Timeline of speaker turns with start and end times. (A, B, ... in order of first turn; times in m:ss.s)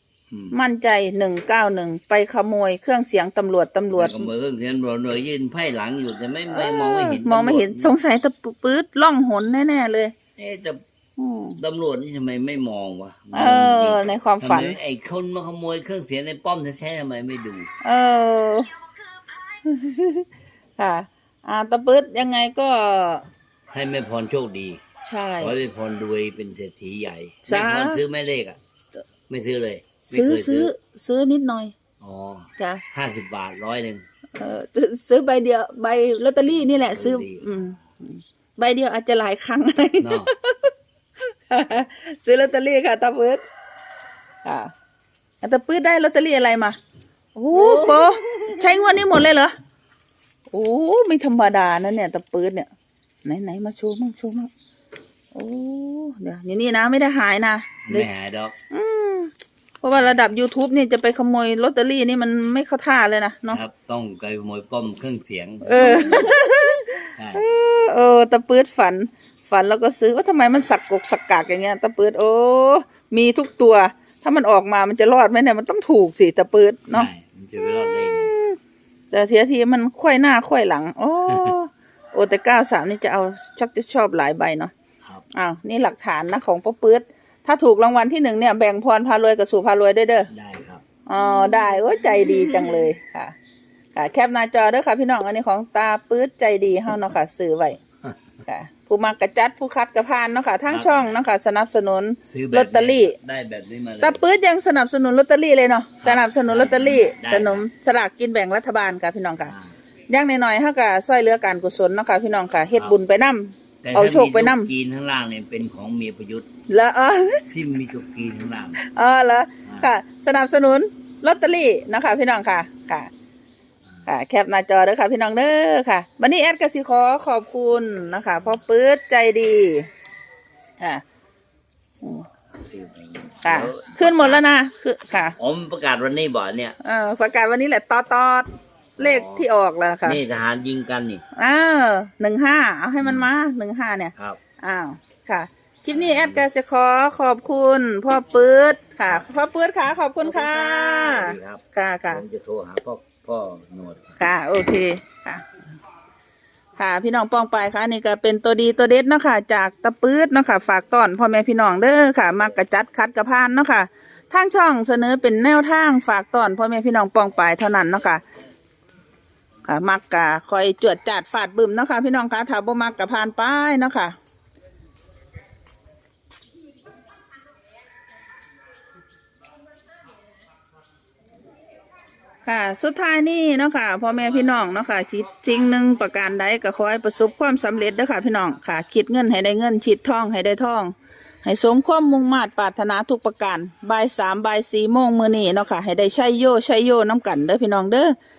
0:00.5-0:04.3 A
0:03.9-0:07.9 B
0:06.5-0:10.1 A
0:10.4-0:10.8 B
0:11.2-0:11.6 A
0:11.6-0:17.7 B
0:13.3-0:14.8 A
0:17.8-0:18.7 A
0:19.0-0:19.4 B
0:19.6-0:20.2 A
0:20.8-0:23.3 A
0:23.7-0:24.8 B
0:25.0-0:25.6 A
0:25.4-0:28.6 B
0:27.4-0:28.0 A
0:29.3-0:30.7 B
0:30.1-0:31.7 A
0:32.0-0:34.0 B
0:32.6-0:32.8 A
0:34.4-0:43.4 A
0:36.9-0:37.5 B
0:40.0-0:40.3 B
0:44.4-0:44.7 A
0:45.4-0:46.8 A
0:47.3-0:49.5 A
0:47.5-0:48.9 B
0:50.5-0:52.7 A
0:53.2-0:54.5 A
0:55.3-0:58.1 A
0:57.8-0:58.6 B
0:58.7-1:03.6 A
1:03.5-1:06.4 B
1:05.6-1:18.6 A
1:07.2-1:07.4 B
1:16.9-1:18.3 B
1:19.1-1:24.7 A
1:25.3-1:30.3 A
1:30.3-1:30.8 B
1:31.1-1:33.3 A
1:33.9-1:37.8 A
1:38.4-1:43.2 A
1:40.7-1:41.1 B
1:42.3-1:44.2 B
1:44.0-1:49.5 A
1:46.0-1:47.6 B
1:49.4-1:49.7 B
1:50.1-1:54.7 A
1:53.8-1:56.5 B
1:56.7-1:57.4 A
1:57.5-1:58.8 B
1:58.8-2:03.1 A
1:59.6-1:59.9 B
2:04.0-2:09.9 A
2:10.8-2:11.0 A
2:12.0-2:12.3 A
2:12.5-2:14.4 B
2:13.4-2:15.4 A
2:15.4-2:16.8 B
2:16.8-2:18.5 A
2:19.0-2:19.5 B
2:19.0-2:20.2 A
2:20.0-2:21.2 B
2:21.3-2:32.2 A
2:23.0-2:23.3 B
2:25.9-2:26.4 B
2:30.2-2:34.2 B
2:34.2-2:35.4 A
2:36.8-2:48.2 A
2:49.6-2:54.2 A
3:02.4-3:18.1 A